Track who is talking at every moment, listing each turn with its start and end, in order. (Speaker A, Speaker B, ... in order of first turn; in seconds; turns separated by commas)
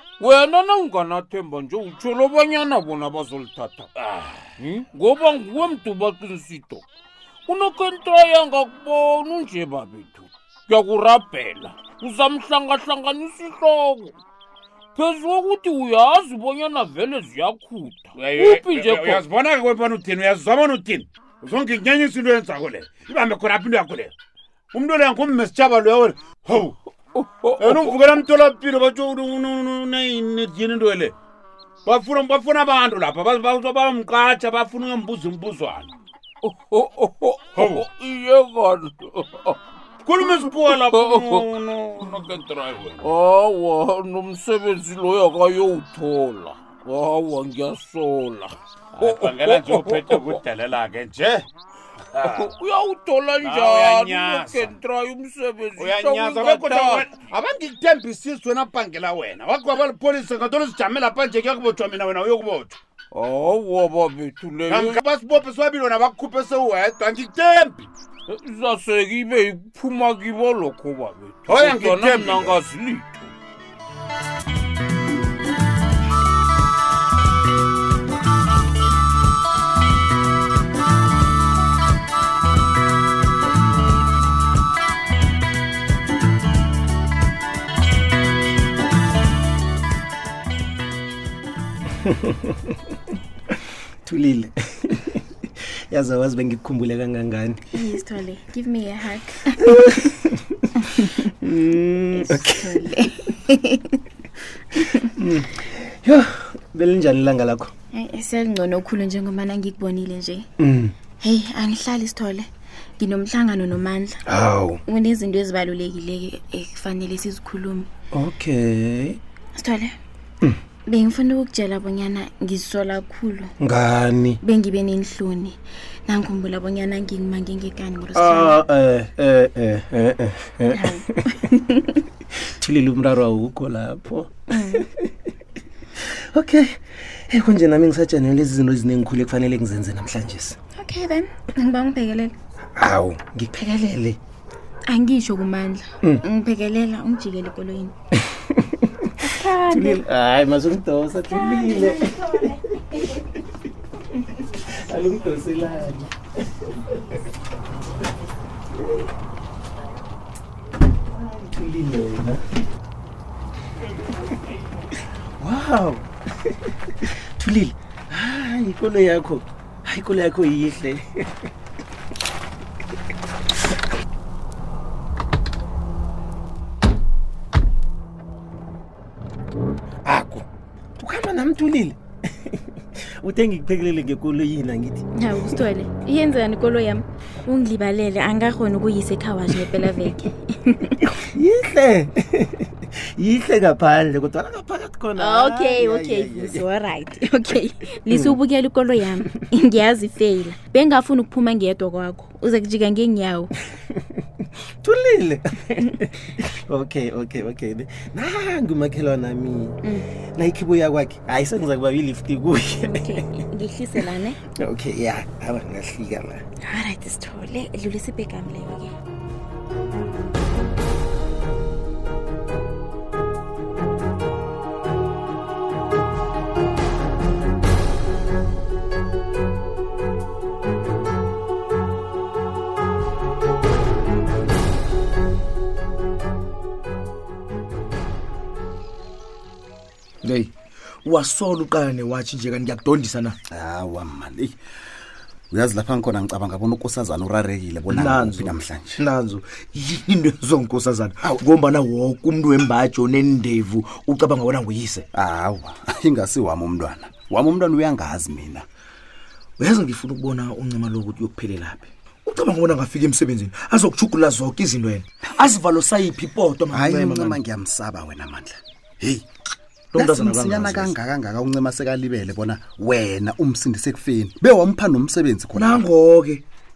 Speaker A: 0.2-3.9, Speaker B: 4.0-4.5, Speaker A: 4.6-6.8, Speaker A: 7.5-14.2, Speaker A: 14.9-19.2, Speaker B: 18.1-24.1, Speaker B: 24.7-26.7, Speaker A: 27.2-28.0, Speaker B: 27.6-31.1, Speaker B: 31.9-35.9, Speaker A: 36.4-39.6, Speaker B: 37.5-37.8, Speaker B: 40.0-43.1, Speaker A: 40.2-41.4, Speaker A: 43.0-50.4, Speaker B: 49.0-51.5, Speaker B: 52.1-52.5, Speaker A: 52.2-57.1, Speaker B: 53.4-54.7, Speaker B: 55.8-62.8, Speaker A: 63.1-65.0, Speaker B: 64.7-67.9, Speaker A: 68.3-73.3, Speaker B: 71.5-72.6, Speaker C: 94.0-95.0, Speaker C: 95.9-97.6, Speaker D: 97.7-99.8, Speaker C: 101.4-102.6, Speaker D: 102.0-104.0, Speaker D: 104.8-105.0, Speaker C: 105.2-107.7, Speaker D: 107.9-110.5, Speaker C: 110.6-110.9, Speaker D: 111.2-114.2, Speaker D: 114.8-117.9, Speaker C: 118.1-119.2, Speaker D: 119.5-120.0, Speaker D: 120.9-123.5, Speaker D: 124.4-128.6, Speaker C: 128.1-130.8, Speaker D: 130.7-132.0, Speaker C: 132.6-134.3, Speaker D: 134.5-134.8, Speaker C: 136.3-136.7, Speaker C: 137.3-140.6, Speaker D: 140.8-142.3, Speaker D: 144.9-147.9, Speaker D: 149.2-150.0, Speaker C: 149.7-152.2, Speaker D: 151.4-152.1, Speaker C: 155.0-156.1, Speaker C: 161.4-161.8, Speaker C: 165.4-166.0, Speaker E: 167.4-167.7, Speaker C: 168.1-171.2, Speaker C: 180.1-180.4, Speaker C: 181.0-182.0, Speaker C: 183.2-185.0, Speaker D: 185.1-191.0, Speaker C: 191.3-192.6, Speaker C: 193.2-196.6, Speaker D: 195.1-203.5, Speaker C: 204.8-205.8, Speaker C: 206.5-209.8, Speaker C: 210.3-213.2, Speaker D: 212.8-214.4, Speaker C: 214.6-216.4, Speaker D: 216.6-218.9, Speaker E: 240.2-240.5, Speaker E: 241.0-243.4, Speaker F: 243.5-244.6, Speaker F: 245.5-249.0, Speaker E: 247.9-255.0, Speaker F: 255.1-258.6, Speaker E: 259.6-267.4, Speaker F: 266.7-269.2, Speaker E: 269.9-270.9, Speaker F: 269.9-275.8, Speaker E: 275.5-276.4